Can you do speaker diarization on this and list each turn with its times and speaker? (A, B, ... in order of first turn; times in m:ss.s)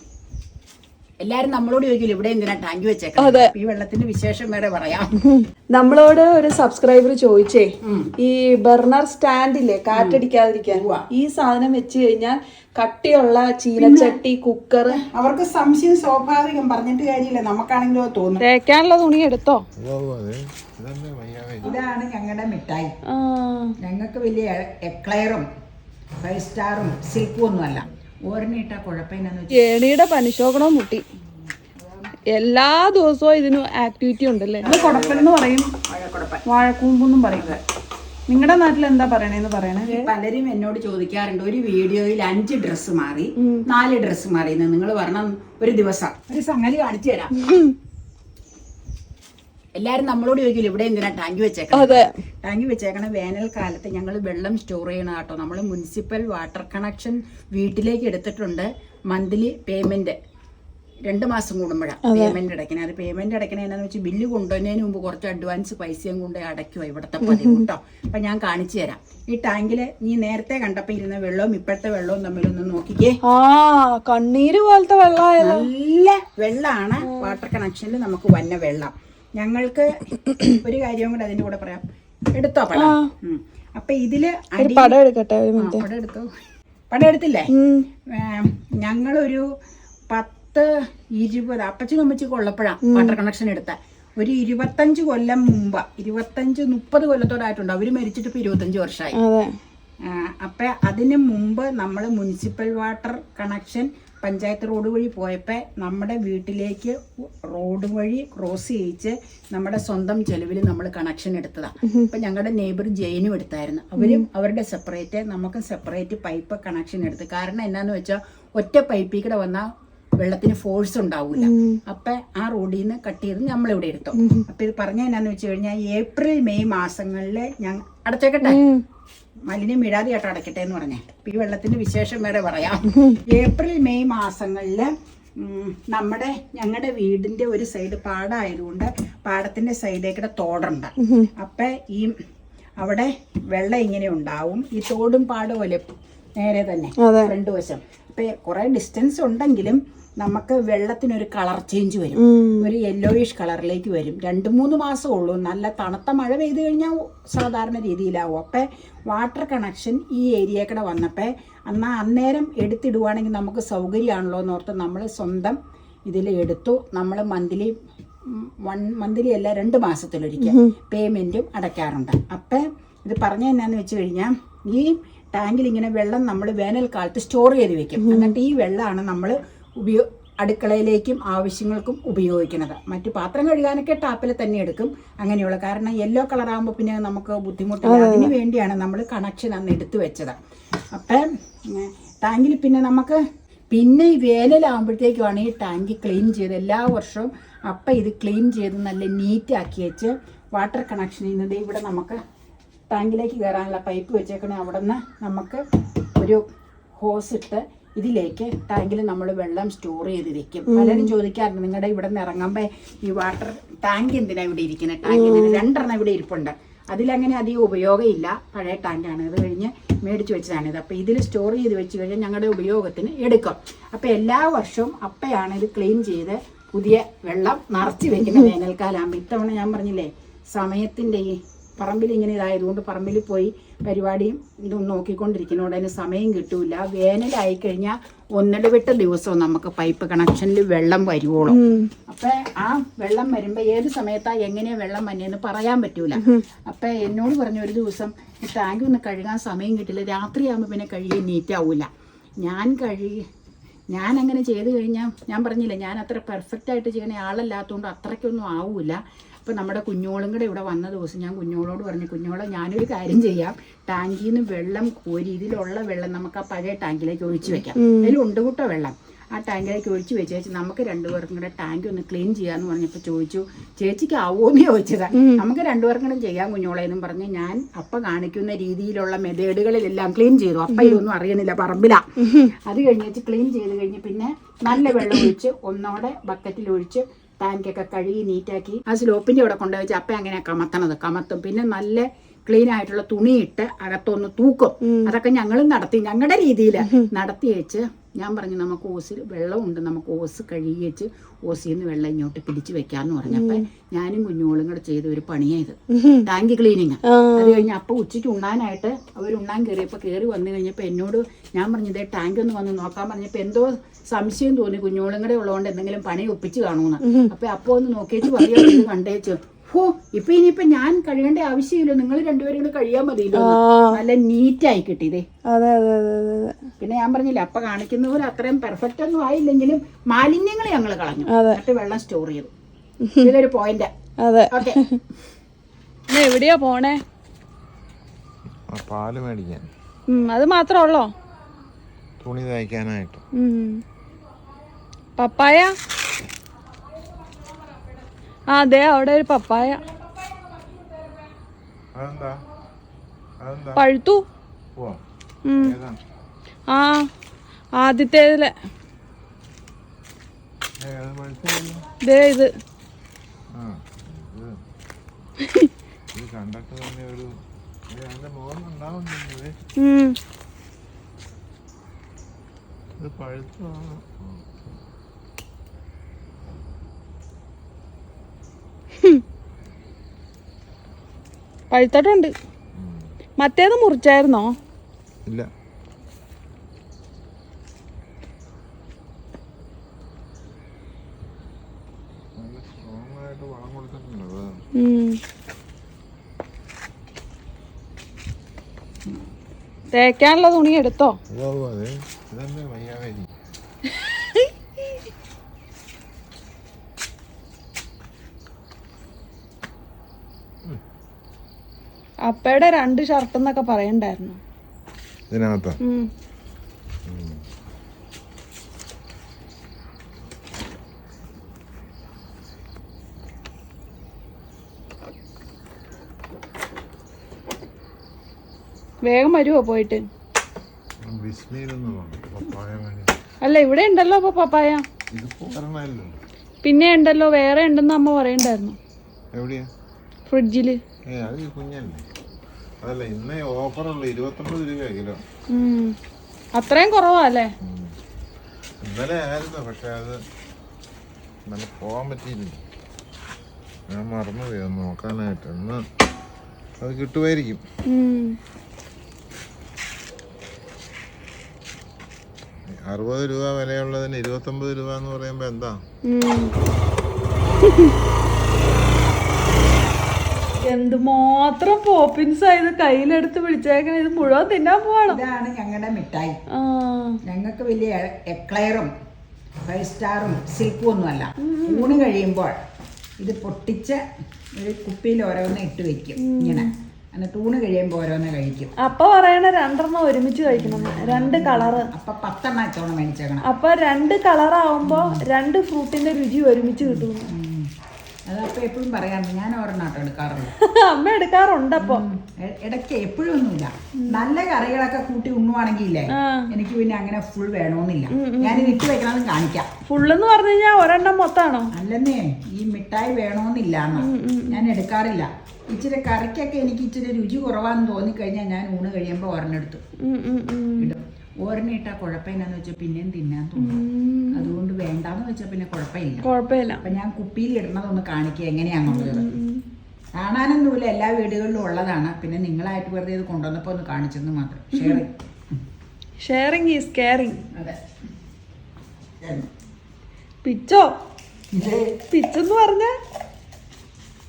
0:01.2-0:05.1 A
0:03.2-0:03.5 B
0:05.2-0:15.0 B
0:07.8-0:08.1 A
0:09.9-0:11.0 A
0:13.8-0:14.2 A
0:14.9-0:18.4 A
0:18.4-0:19.6 B
0:19.8-0:21.8 C
0:21.6-0:22.9 A
0:23.1-0:23.7 B
0:23.8-0:25.4 A
0:26.2-0:29.6 A
0:29.5-0:31.0 B
0:31.6-0:32.1 A
0:32.3-0:35.7 B
0:34.6-0:35.3 A
0:35.9-0:36.4 A
0:36.4-0:37.6 B
0:37.3-0:37.6 A
0:38.3-0:40.1 B
0:39.8-0:47.3 A
0:43.4-0:43.6 B
0:47.4-0:47.7 B
0:49.8-1:00.2 A
0:51.7-0:52.1 B
1:01.1-1:13.2 A
1:02.0-1:02.4 B
1:07.2-1:07.6 B
1:13.2-1:15.7 B
1:15.4-1:24.9 A
1:17.0-1:17.3 B
1:20.2-1:20.6 B
1:22.7-1:23.1 B
1:24.6-1:25.8 B
1:25.6-1:26.3 A
1:26.9-1:27.5 A
1:27.5-1:27.8 B
1:28.1-1:29.4 A
1:30.1-1:39.2 A
1:32.8-1:33.2 B
1:39.2-1:39.5 B
1:40.0-1:59.7 A
1:51.8-1:52.1 B
1:54.0-1:54.2 B
2:00.2-2:08.6 A
2:01.4-2:01.8 B
2:04.2-2:04.4 B
2:08.4-2:08.8 B
2:09.5-2:22.1 A
2:12.9-2:13.2 B
2:21.0-2:21.3 B
2:22.8-2:25.9 A
2:26.4-2:47.7 A
2:27.0-2:27.3 B
2:32.2-2:32.7 B
2:48.3-3:10.4 A
2:50.4-2:50.7 B
2:58.0-2:58.3 B
3:07.8-3:08.3 B
3:10.9-3:13.2 A
3:13.7-3:22.2 A
3:22.9-3:25.6 A
3:27.0-4:01.6 A
3:30.7-3:31.1 B
3:35.1-3:35.6 B
4:01.5-4:01.9 B
4:02.1-4:11.9 A
4:12.4-4:13.2 A
4:13.9-5:25.2 A
4:27.8-4:28.1 B
4:35.1-4:35.4 B
4:40.7-4:41.0 B
4:42.2-4:42.5 B
4:54.8-4:55.1 B
4:56.8-4:57.1 B
5:03.3-5:03.6 B
5:05.9-5:06.2 B
5:07.1-5:07.6 B
5:17.0-5:17.3 B
5:18.4-5:18.8 B
5:23.3-5:24.0 B
5:25.5-5:26.6 B
5:26.8-5:32.5 A
5:31.3-5:31.6 B
5:33.0-5:33.3 B
5:33.2-5:33.9 A
5:34.2-5:35.0 B
5:34.5-5:34.8 A
5:36.1-5:37.0 B
5:38.7-5:39.7 C
5:40.1-5:41.1 B
5:42.2-5:43.2 C
5:43.3-5:43.8 B
5:45.2-5:45.7 B
5:48.5-5:49.8 B
5:51.9-5:52.4 C
5:53.4-5:53.8 C
5:53.7-5:54.2 B
5:55.5-5:55.8 B
5:55.6-5:56.0 C
5:56.7-5:57.0 B
5:57.8-5:58.5 B
6:00.8-6:01.8 C
6:02.0-6:02.5 B
6:03.5-6:04.5 C
6:06.1-6:07.3 C
6:07.9-6:09.6 C
6:09.8-6:10.2 B
6:13.0-6:14.8 C
6:21.7-6:22.3 B
6:22.8-6:23.1 C
6:23.4-6:24.5 B
6:32.4-6:34.6 C
6:34.8-6:35.2 B
6:39.9-6:41.2 B
6:41.3-6:43.3 C
6:44.0-6:44.5 B
6:52.2-6:54.4 B
6:55.3-6:55.8 C
6:55.8-6:56.1 B
6:57.1-6:57.4 C
7:09.0-7:10.0 B
7:11.0-7:13.2 C
7:13.4-7:14.8 B
7:15.1-7:16.2 C
7:16.6-7:18.8 B
7:19.3-7:19.7 C
7:20.3-7:20.8 B
7:21.1-7:22.0 C
7:22.8-7:25.2 C
7:25.5-7:25.9 B
7:26.5-7:27.5 B
7:27.6-7:27.9 C
7:28.8-7:30.2 C
7:31.5-7:32.6 C
7:33.9-7:35.8 C
7:36.8-7:37.6 C
7:37.9-7:38.4 B
7:42.7-7:45.8 C
7:46.0-7:46.5 B
7:47.6-7:47.9 B
7:50.6-7:55.2 B
7:55.1-7:56.4 A
7:56.5-7:57.2 B
7:57.2-7:58.9 A
7:59.6-8:02.6 A
8:01.4-8:02.0 B
8:03.2-8:04.0 A
8:04.6-8:08.7 A
8:06.2-8:06.7 B
8:08.8-8:11.9 B
8:10.5-8:13.4 A
8:13.4-8:17.3 B
8:14.8-8:15.2 A
8:16.8-8:17.7 A
8:18.3-8:20.5 A
8:20.6-8:22.0 B
8:21.8-8:29.7 A
8:26.1-8:26.5 B
8:28.1-8:28.8 B
8:29.9-8:31.7 B
8:31.7-8:39.8 A
8:34.0-8:34.6 B
8:40.0-8:40.9 B
8:40.8-8:43.8 A
8:43.6-8:44.5 B
8:44.3-8:46.2 A
8:46.2-8:46.8 B
8:46.8-8:49.2 A
8:48.9-8:49.6 B
8:50.2-8:55.1 A
8:54.7-8:55.0 B
8:56.2-8:57.4 B
8:57.5-8:57.8 A
8:59.2-8:59.5 A
9:00.4-9:00.9 B
9:01.5-9:01.9 A
9:02.1-9:03.0 B